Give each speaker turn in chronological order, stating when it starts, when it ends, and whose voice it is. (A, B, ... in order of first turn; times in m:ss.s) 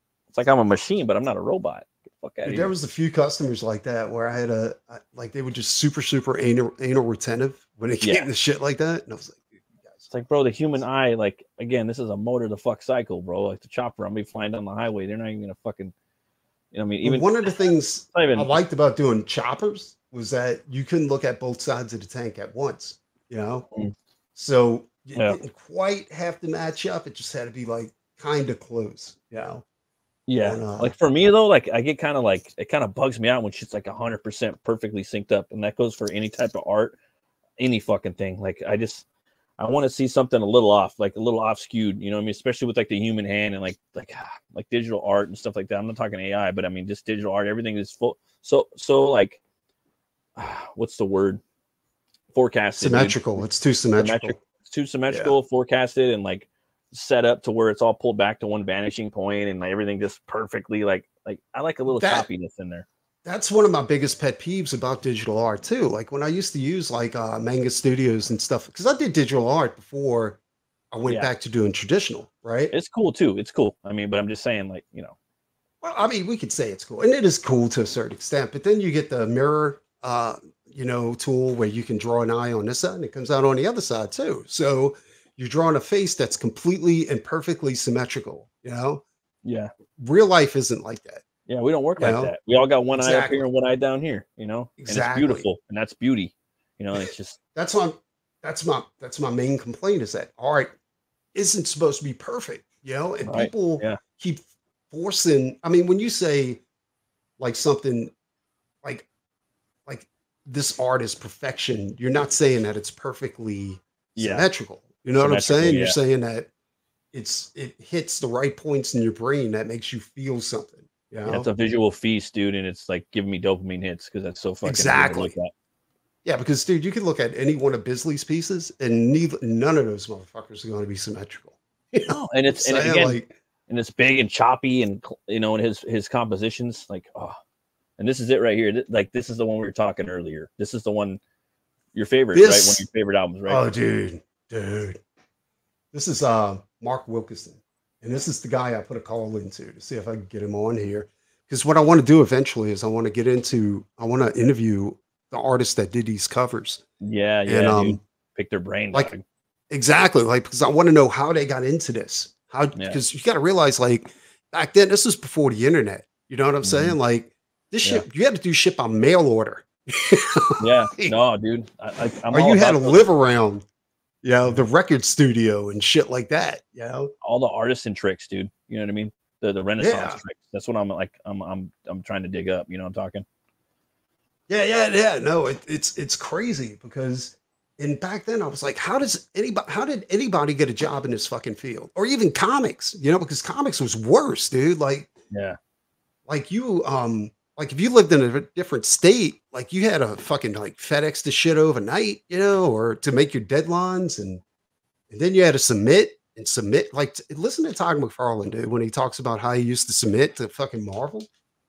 0:00.3-0:02.7 A
0:02.4-0:10.1 B
0:08.0-0:08.3 A
0:10.1-0:15.9 A
0:16.7-0:17.5 A
0:17.0-0:23.6 B
0:18.1-0:18.5 A
0:24.4-0:29.6 B
0:30.3-0:37.0 A
0:30.4-0:30.9 B
0:37.6-0:39.0 A
0:39.6-0:49.4 A
0:50.4-0:51.4 A
0:52.3-0:53.4 A
0:52.8-0:54.4 B
0:54.0-1:02.8 A
0:55.1-0:55.3 B
1:01.9-1:02.2 B
1:03.2-1:10.4 B
1:10.9-1:12.7 B
1:12.7-1:15.2 A
1:15.8-1:29.0 B
1:29.4-1:29.7 A
1:30.0-1:31.2 B
1:31.5-1:37.4 A
1:32.0-1:32.3 B
1:32.9-1:33.4 B
1:34.8-1:35.4 B
1:37.5-1:40.7 B
1:41.3-1:46.6 B
1:43.2-1:44.0 A
1:47.4-1:48.1 B
1:49.8-1:56.5 B
1:54.2-1:54.4 A
1:55.2-1:56.0 A
1:57.1-2:01.5 B
2:01.2-2:05.5 A
2:04.6-2:05.3 B
2:06.2-2:13.3 B
2:12.1-2:13.2 A
2:13.7-2:17.4 A
2:18.0-2:21.2 A
2:21.9-2:23.7 A
2:22.3-2:22.8 B
2:23.5-2:25.0 B
2:25.9-2:36.8 B
2:37.0-2:39.2 A
2:37.5-2:38.0 B
2:39.7-2:51.1 B
2:42.7-2:43.0 A
2:46.6-2:47.0 A
2:50.6-2:53.0 A
2:52.3-2:53.6 B
2:54.2-2:57.1 B
2:57.2-3:03.2 A
2:59.8-3:00.2 B
3:04.5-3:15.1 B
3:15.3-3:15.6 A
3:16.3-3:24.4 B
3:25.1-3:31.3 B